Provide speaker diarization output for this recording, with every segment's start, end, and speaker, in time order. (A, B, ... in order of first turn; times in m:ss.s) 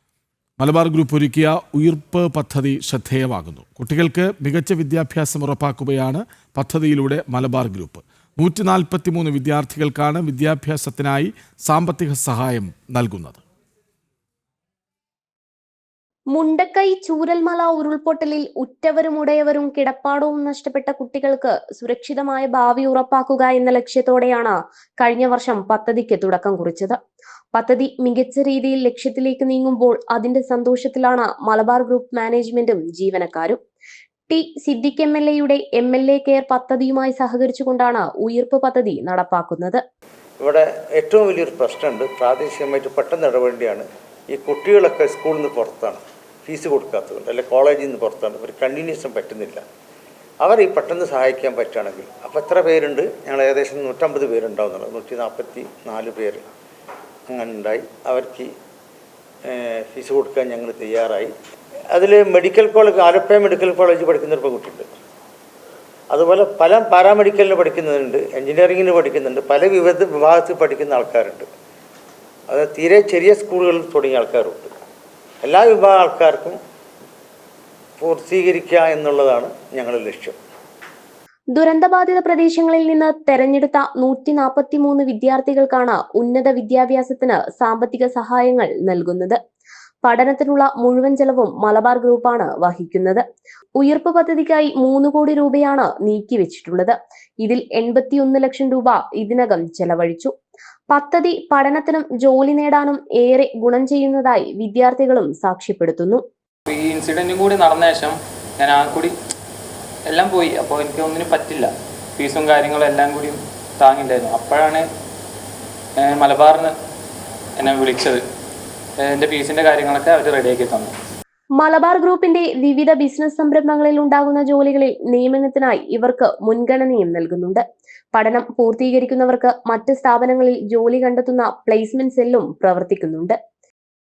0:00.6-0:13.4 A
0:16.3-0:27.0 B
0:27.5-0:33.6 B
0:34.3-0:39.8 B
0:40.4-0:49.6 C
0:50.4-0:56.4 C
0:57.3-0:58.5 C
0:59.4-1:01.3 C
1:01.9-1:05.0 C
1:06.1-1:11.5 C
1:12.5-1:14.7 C
1:15.4-1:16.6 C
1:18.0-1:20.4 C
1:21.5-1:29.4 B
1:30.0-1:33.2 B
1:33.8-1:40.3 B
1:40.9-1:46.2 B
1:46.7-1:49.1 D
1:50.1-1:54.9 D
1:56.0-1:56.8 D
1:57.6-1:58.2 D
1:59.0-2:00.9 D
2:01.6-2:07.6 B
2:08.1-2:13.4 B